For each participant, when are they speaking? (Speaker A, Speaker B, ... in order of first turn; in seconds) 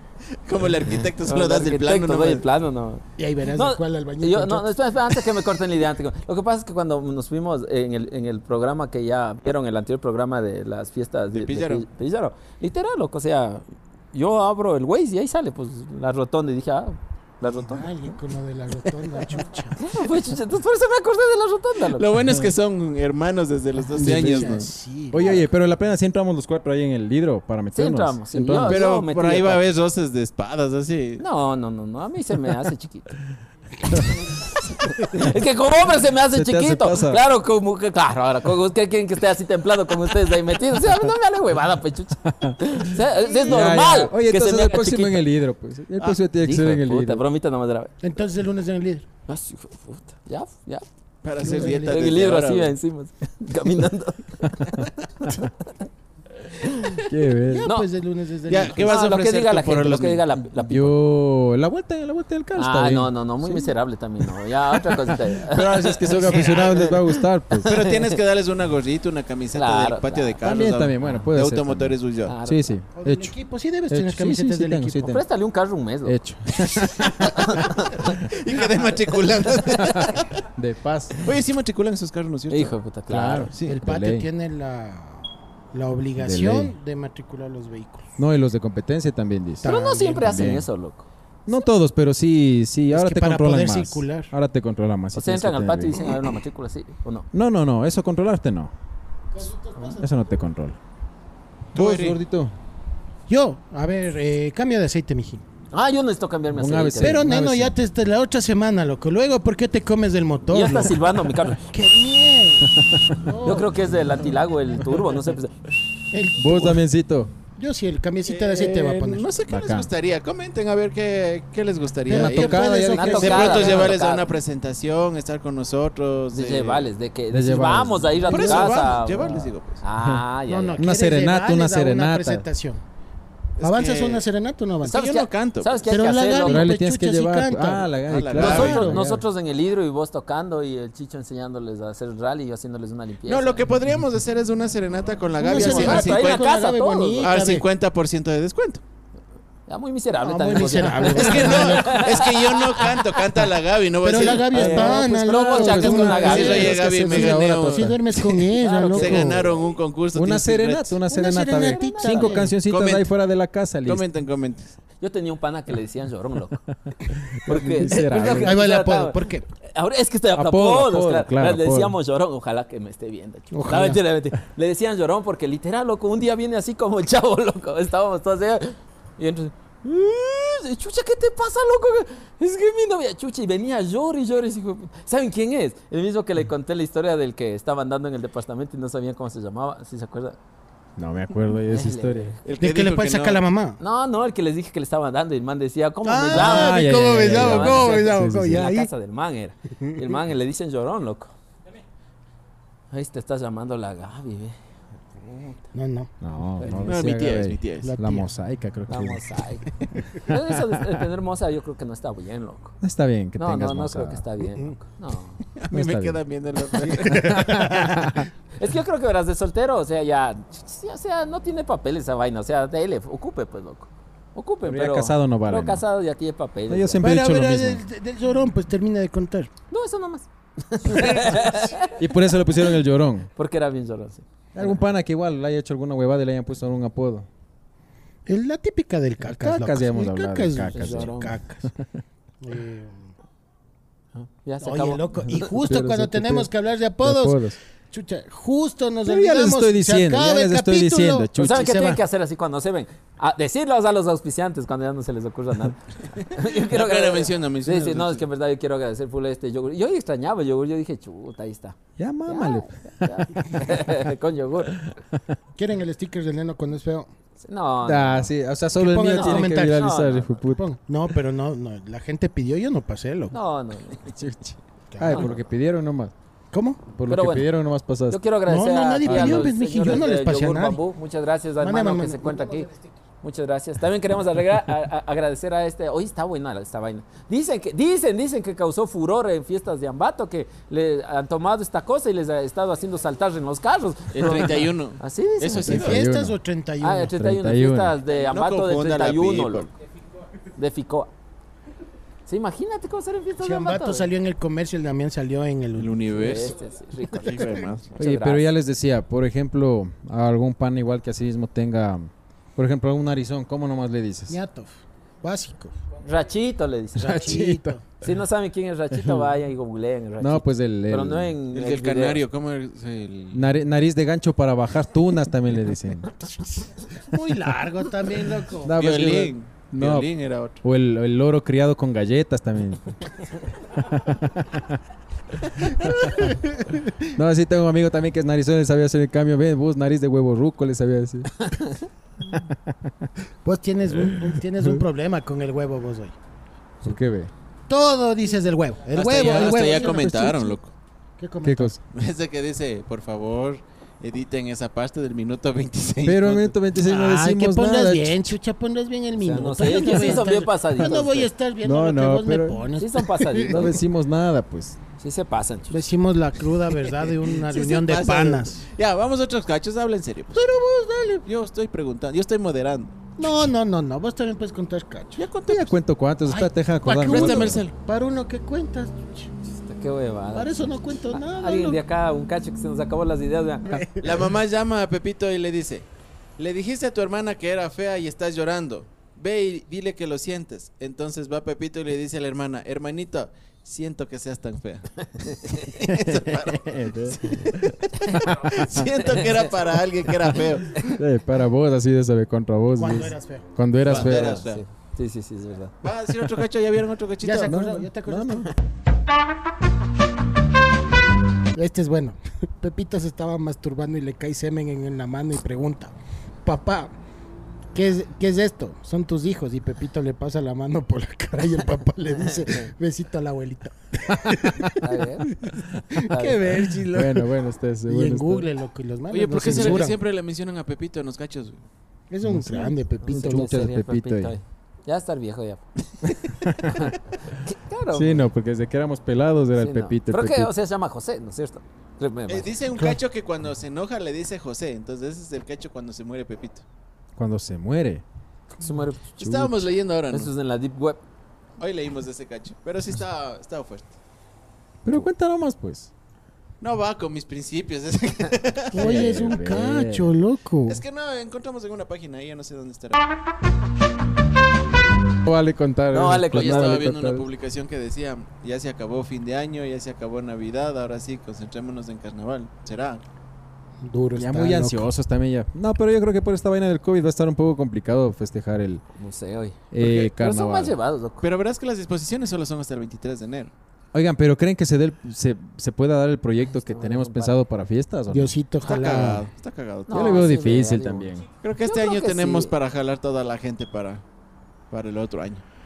Speaker A: 0.4-2.4, 11.3-11.8, 21.9-24.7, 28.6-31.2, 43.2-43.6, 51.2-52.7, 58.5-60.2, 66.0-66.9, 67.6-72.3, 78.0-80.3, 81.2-82.7, 101.7-102.2, 118.2-126.9, 128.2-129.8, 133.6-134.2, 134.9-135.8, 138.1-138.9, 143.2-146.6, 147.2-148.8, 151.0-155.0, 156.1-161.0, 162.6-163.1, 163.8-164.8, 192.4-193.4, 206.8-207.9, 215.6-217.6, 256.3-258.2, 294.1-296.1, 298.1-299.7, 305.8-306.6, 307.1-307.9, 321.5-323.4, 328.7-330.6, 348.9-350.7, 351.9-356.5, 367.3-370.4, 371.2-372.9, 375.2-375.8, 377.0-377.7, 384.0-385.8, 386.4-400.8, 403.8-404.6, 405.8-407.6, 429.1-431.6, 442.3-446.6, 449.2-450.3, 451.6-453.9, 456.6-459.2, 460.6-463.0, 466.3-473.0, 479.8-480.1, 481.2-483.5, 488.6-490.2, 491.4-494.0, 494.7-495.4
Speaker B: 1.2-17.9, 19.7-22.1, 27.7-29.6, 31.2-33.2, 34.7-45.2, 46.4-47.9, 49.3-50.9, 51.4-55.7, 56.5-57.1, 58.8-61.0, 62.5-67.1, 67.6-68.2, 69.5-70.4, 72.2-72.8, 75.0-76.2, 77.0-78.2, 82.5-83.5, 89.6-91.0, 95.1-97.3, 105.7-107.2, 110.5-111.6, 113.4-115.5, 122.8-124.3, 126.3-130.8, 134.8-136.7, 138.4-143.6, 145.4-147.3, 149.7-153.4, 154.5-156.8, 158.6-159.7, 161.5-162.4, 165.0-166.6, 167.4-190.4, 191.7-192.4, 193.8-201.3, 202.9-204.6, 205.2-205.6, 206.6-206.9, 208.9-212.8, 213.4-215.4, 218.6-227.0, 229.7-232.0, 233.3-234.8, 240.7-241.4, 244.4-245.5, 251.4-264.8, 267.4-268.3, 269.1-270.4, 273.3-274.1, 275.1-275.3, 277.1-277.5, 278.1-282.7, 283.2-295.9, 296.8-299.7, 300.6-301.1, 302.2-304.1, 306.2-308.4, 316.0-317.4, 318.0-322.2, 359.1-361.3, 362.8-363.8, 365.0-365.8, 379.5-380.5, 381.1-383.8, 403.9-405.7, 424.8-425.3, 426.1-426.4, 433.0-435.6, 436.7-438.3, 439.6-442.6, 448.5-449.5, 450.1-451.0, 465.9-466.8, 478.9-481.2, 486.5-487.4, 489.9-492.5
Speaker C: 3.2-4.7, 17.5-19.9, 23.9-25.5, 48.0-49.0, 51.4-52.0, 57.5-59.0, 72.9-75.2, 83.6-88.1, 89.6-90.5, 92.9-94.3, 99.3-100.1, 103.3-105.4, 107.0-111.0, 111.7-114.0, 116.1-116.8, 117.5-119.3, 122.1-123.9, 130.5-132.8, 133.6-135.1, 135.8-139.1, 145.4-147.6, 150.2-152.2, 154.0-159.5, 161.1-162.5, 168.3-169.4, 173.5-174.0, 192.6-193.8, 196.0-198.9, 205.7-206.9, 207.8-208.3, 216.9-217.9, 227.0-229.5, 238.2-241.7, 242.4-243.0, 244.6-252.0, 265.6-267.1, 268.7-269.9, 270.5-273.3, 274.9-275.3, 276.5-276.8, 278.4-280.8, 281.6-282.9, 295.7-297.1, 303.4-306.5, 314.3-315.7, 316.9-317.8, 327.1-328.7, 343.4-346.1, 347.7-350.5, 351.2-351.7, 356.8-363.7, 365.7-368.6, 370.3-371.2, 373.2-375.3, 376.3-379.3, 380.3-381.8, 383.7-384.1, 402.8-403.5, 407.2-408.5, 411.5-415.9, 416.4-416.9, 417.7-424.9, 425.9-427.3, 427.9-430.0, 432.1-433.6, 458.7-460.8, 473.8-474.9, 488.1-489.2
Speaker D: 23.9-28.8, 36.3-37.2, 42.3-42.6, 43.4-47.2, 57.0-57.7, 60.5-63.7, 64.7-67.7, 70.4-73.3, 73.9-75.2, 76.0-77.7, 79.7-81.2, 83.1-84.3, 86.2-86.7, 88.2-90.7, 91.5-96.1, 97.3-98.7, 99.8-100.8, 101.7-102.5, 106.5-107.7, 116.4-117.3, 119.5-119.9, 122.1-123.7, 127.3-128.8, 130.8-132.4, 136.4-139.2, 154.6-158.0, 160.1-164.0, 167.3-168.6, 170.3-171.9, 191.0-192.3, 196.3-198.7, 206.2-209.2, 212.8-214.2, 215.7-216.2, 216.9-218.3, 224.6-225.8, 226.7-227.8, 231.9-233.3, 234.5-237.3, 239.2-241.2, 245.2-246.5, 247.0-247.6, 249.0-251.9, 262.0-263.9, 267.8-270.6, 274.1-276.1, 276.9-278.2, 279.0-279.5, 295.6-296.4, 297.1-297.9, 308.0-314.4, 317.1-317.7, 318.9-319.2, 320.2-321.3, 323.3-326.1, 328.6-330.1, 330.6-333.0, 333.7-334.8, 335.6-336.3, 337.1-341.3, 342.5-343.1, 343.9-344.8, 346.8-347.3, 351.4-351.8, 356.0-358.4, 361.6-362.6, 363.4-364.8, 375.4-377.6, 395.9-397.7, 398.2-398.9, 400.8-404.4, 407.4-408.5, 424.2-424.8, 426.9-428.5, 432.2-434.3, 436.2-436.9, 437.9-440.5, 447.1-448.0, 449.2-449.6, 454.8-455.9, 458.7-460.1, 465.2-467.2, 474.1-478.8, 479.7-480.7, 483.9-488.4, 489.9-491.2